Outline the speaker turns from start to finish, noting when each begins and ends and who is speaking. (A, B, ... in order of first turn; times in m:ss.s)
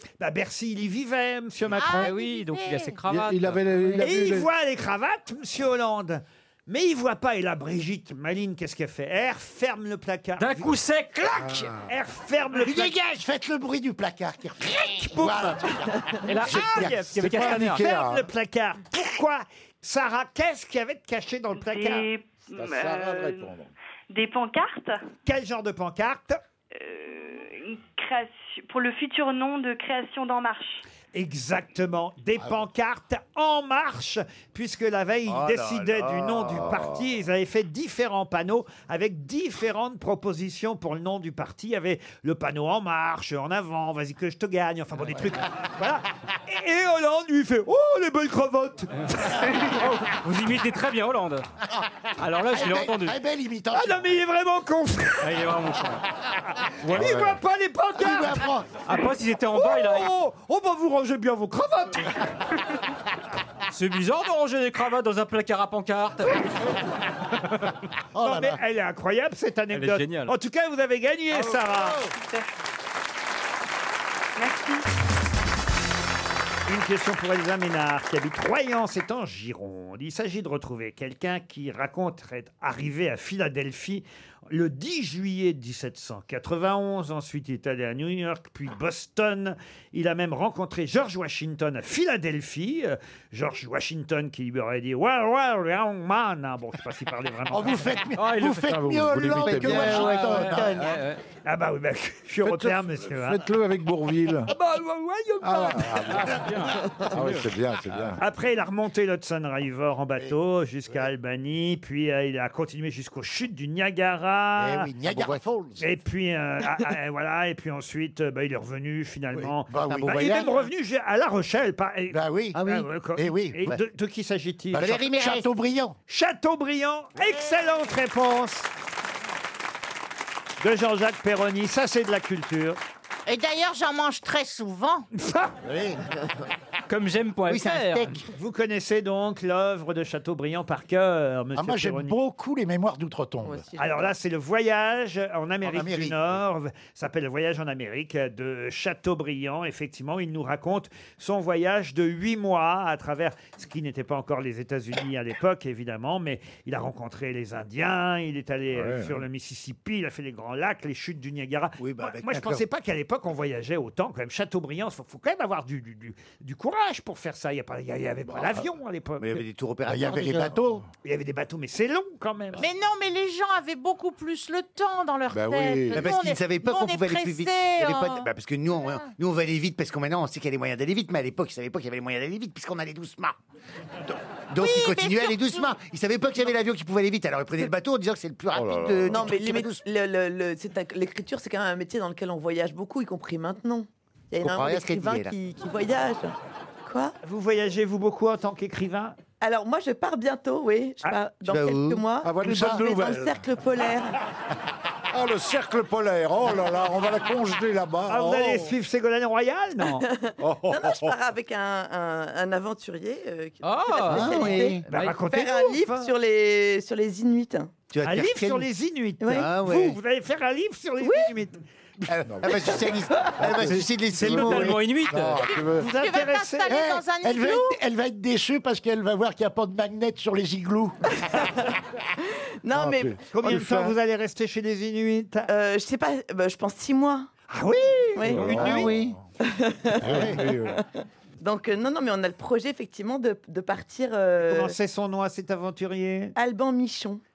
0:00.2-0:02.1 A
0:01.8-0:03.0 B
0:01.8-0:03.8 C
0:03.1-0:04.5 D
0:04.0-0:10.7 A
0:10.4-0:11.6 C
0:11.3-0:13.0 A
0:11.4-0:11.9 D
0:12.6-0:17.3 E
0:14.8-0:15.9 A
0:16.2-0:17.8 C
0:16.5-0:22.1 A
0:17.1-0:18.3 D
0:21.5-0:23.6 F
0:22.5-0:23.7 D
0:24.1-0:25.0 F
0:25.2-0:26.4 A
0:26.7-0:30.8 F
0:31.1-0:49.8 A
0:35.3-0:36.8 G
0:49.1-0:51.5 C
0:52.2-0:53.2 C
0:52.4-0:54.1 E
0:53.7-0:55.4 A
0:55.2-0:56.0 C
0:56.8-0:57.2 C
0:56.9-0:58.5 A
0:56.9-0:57.4 D
0:58.0-0:58.7 E
0:58.9-1:00.1 C
0:59.5-1:02.2 A
1:03.7-1:06.4 C
1:07.4-1:07.7 C
1:08.2-1:08.6 E
1:08.2-1:12.0 A
1:09.7-1:10.3 C
1:11.3-1:11.9 C
1:14.4-1:14.8 F
1:16.7-1:38.0 A
1:37.5-1:40.9 E
1:38.2-1:41.2 C
1:38.7-1:40.2 D
1:39.4-1:40.9 G
1:41.4-1:43.4 A
1:42.4-1:44.5 D
1:44.5-1:46.4 A
1:45.4-1:48.2 D
1:46.1-1:47.5 C
1:48.2-1:54.9 A
1:54.6-1:55.8 E
1:55.1-1:55.4 G
1:55.8-2:05.0 A
1:59.4-2:00.6 E
1:59.9-2:00.5 G
2:02.1-2:02.6 E
2:02.6-2:03.8 G
2:03.2-2:03.8 E
2:04.7-2:06.0 E
2:04.8-2:05.5 G
2:06.1-2:08.7 A
2:10.6-2:12.8 A
2:13.3-2:15.1 B
2:15.2-2:15.5 A
2:16.9-2:18.2 C
2:17.5-2:18.2 G
2:18.3-2:22.2 A
2:21.6-2:23.6 E
2:23.4-2:24.1 H
2:23.8-2:49.4 A
2:25.7-2:26.1 E
2:38.7-2:39.2 D
2:41.8-2:42.6 G
2:49.2-2:50.6 G
2:49.9-2:50.8 E
2:51.0-2:52.6 A
2:52.6-2:58.3 B
2:55.3-2:56.1 D
2:55.9-3:03.4 G
3:04.5-3:09.8 G
3:04.6-3:05.7 B
3:08.6-3:09.1 D
3:09.1-3:17.2 H
3:14.4-3:15.4 G
3:17.2-3:19.2 A
3:19.4-3:24.2 H
3:21.4-3:22.0 G
3:22.2-3:23.4 D
3:25.1-3:28.7 D
3:28.1-3:30.1 A
3:29.9-3:37.7 H
3:30.4-3:31.1 D
3:33.6-3:35.2 C
3:34.1-3:34.8 G
3:34.9-3:36.1 A
3:37.9-3:38.7 G
3:38.0-3:41.6 A
3:39.2-3:39.5 H
3:39.3-3:40.0 G
3:41.0-3:41.3 H
3:42.1-3:44.8 G
3:42.3-3:45.9 D
3:43.6-3:45.5 C
3:44.3-3:44.7 E
3:45.4-3:47.8 B
3:45.7-3:46.8 A
3:46.7-3:51.0 E
3:51.3-3:51.7 H
3:52.6-3:53.2 H
3:52.7-3:54.0 D
3:53.3-3:55.5 A
3:55.5-3:57.3 H
3:57.5-3:59.0 A
3:58.2-3:58.6 H
3:58.2-3:59.2 D
3:58.5-3:59.1 G
3:59.4-4:00.8 H
4:00.0-4:00.8 D
4:01.4-4:04.7 H
4:04.4-4:06.3 A
4:06.4-4:07.2 H